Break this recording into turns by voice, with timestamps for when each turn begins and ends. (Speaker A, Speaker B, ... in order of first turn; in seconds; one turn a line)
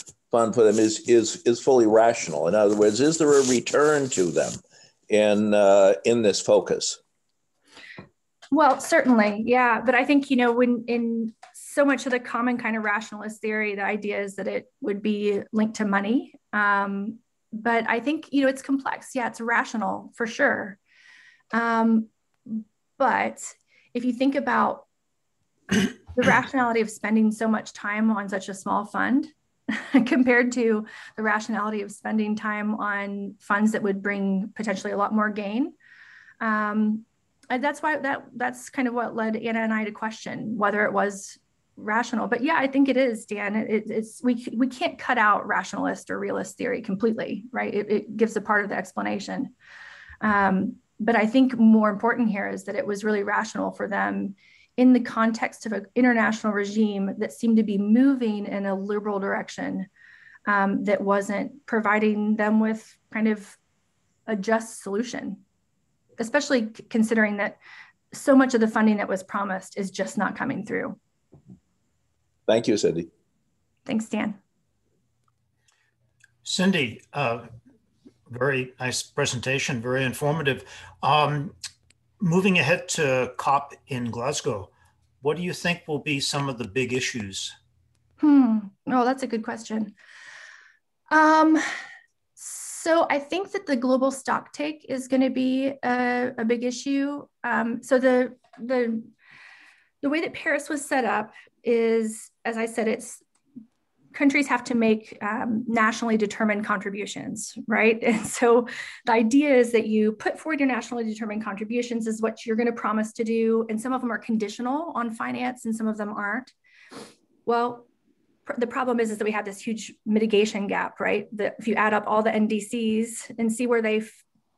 Speaker A: 0.3-7.0
Speaker B: 8.5-20.8
Speaker B: 21.5-24.9
Speaker B: 25.7-35.8
Speaker B: 36.4-49.5
Speaker B: 50.2-59.9
Speaker B: 60.5-63.6
Speaker B: 64.3-65.4
Speaker B: 66.2-67.6
Speaker B: 68.1-71.0
Speaker A: 72.5-73.1
Speaker B: 73.9-74.4
Speaker C: 76.4-77.5
Speaker C: 78.3-81.5
Speaker C: 82.2-87.5
Speaker B: 88.2-90.0
Speaker B: 91.1-91.7
Speaker B: 92.4-99.1
Speaker B: 100.0-103.2
Speaker B: 104.1-116.5
Speaker B: 117.5-117.9
Speaker B: 118.5-124.2